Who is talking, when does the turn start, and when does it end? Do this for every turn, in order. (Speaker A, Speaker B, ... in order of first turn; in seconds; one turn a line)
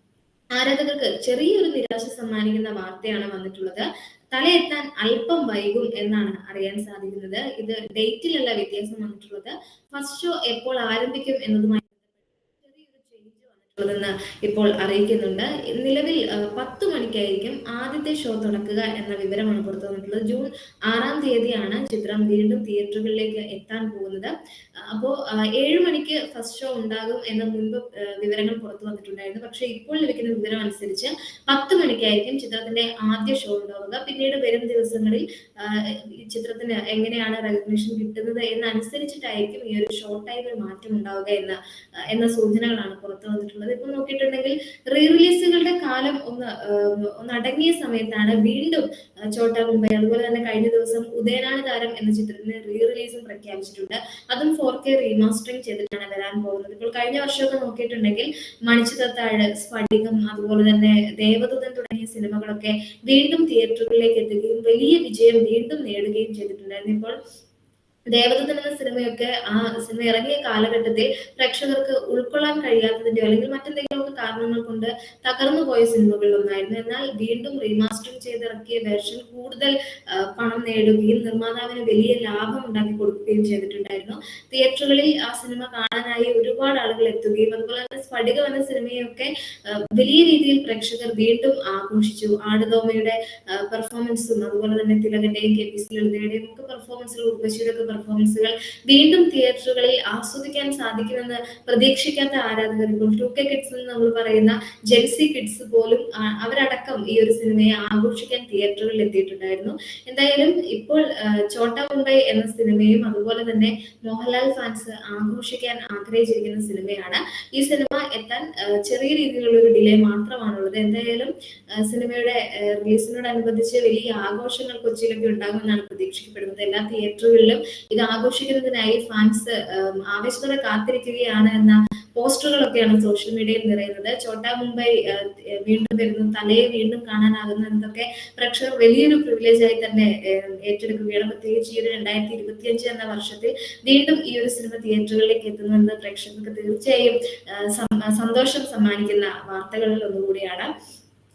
Speaker A: 0.6-24.3
Speaker A: 24.8-41.6
Speaker A: 42.1-67.2
Speaker A: 68.1-150.7